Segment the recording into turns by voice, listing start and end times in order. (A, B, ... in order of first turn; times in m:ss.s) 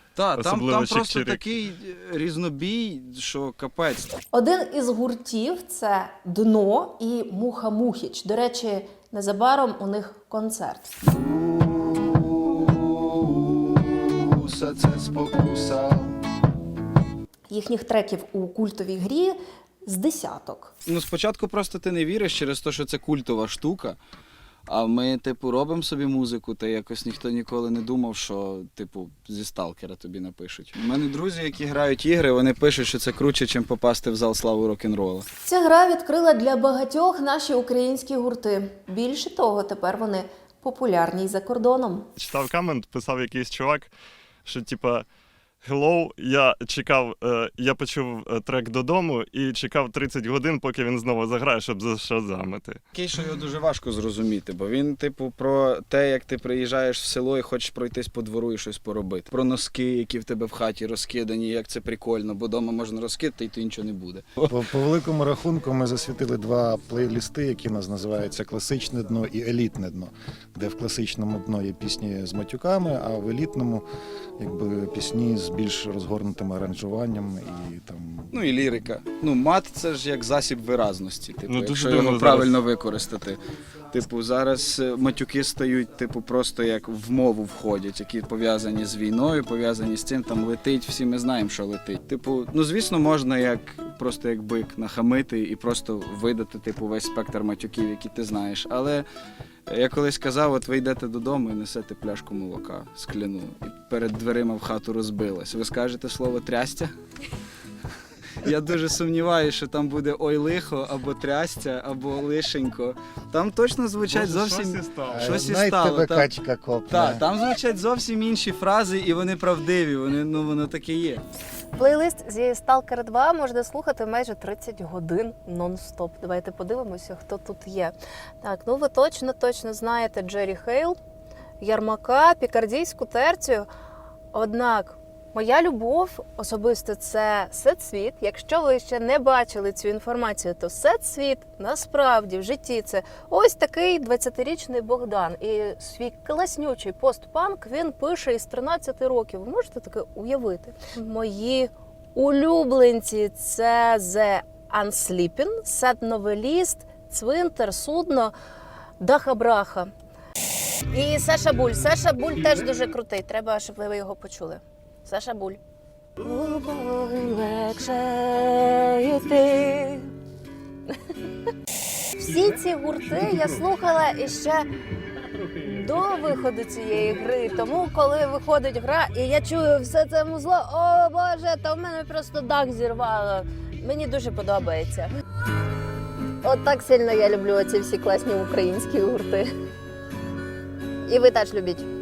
0:00.2-0:04.1 A
0:00.3-0:01.4 B
0:04.3-0:10.9 C
0:11.1-0:16.2 A
0:17.5-0:20.7 C
0:20.9-0:24.0 A
0:24.7-0:35.3 A
0:35.4-0:42.1 C
0:42.2-0:43.9 B
0:44.4-0:45.1 B
0:45.6-0:52.8 B
0:52.9-1:04.4 A
1:04.4-1:13.8 D
1:14.4-1:18.4 D
1:18.3-1:23.4 A
1:21.5-1:22.6 B
1:23.9-1:39.0 A
1:39.7-1:46.9 A
1:48.4-1:56.3 A
1:54.0-1:55.3 B
1:55.1-1:57.2 D
1:56.9-2:01.2 A
2:01.8-2:11.0 C
2:11.6-2:13.7 C
2:14.3-2:38.3 C
2:39.0-2:39.9 C
2:40.9-2:45.6 C
2:46.2-2:50.1 C
2:52.2-2:54.7 C
2:55.6-3:05.1 C
3:06.4-3:09.5 C
3:11.1-3:11.9 C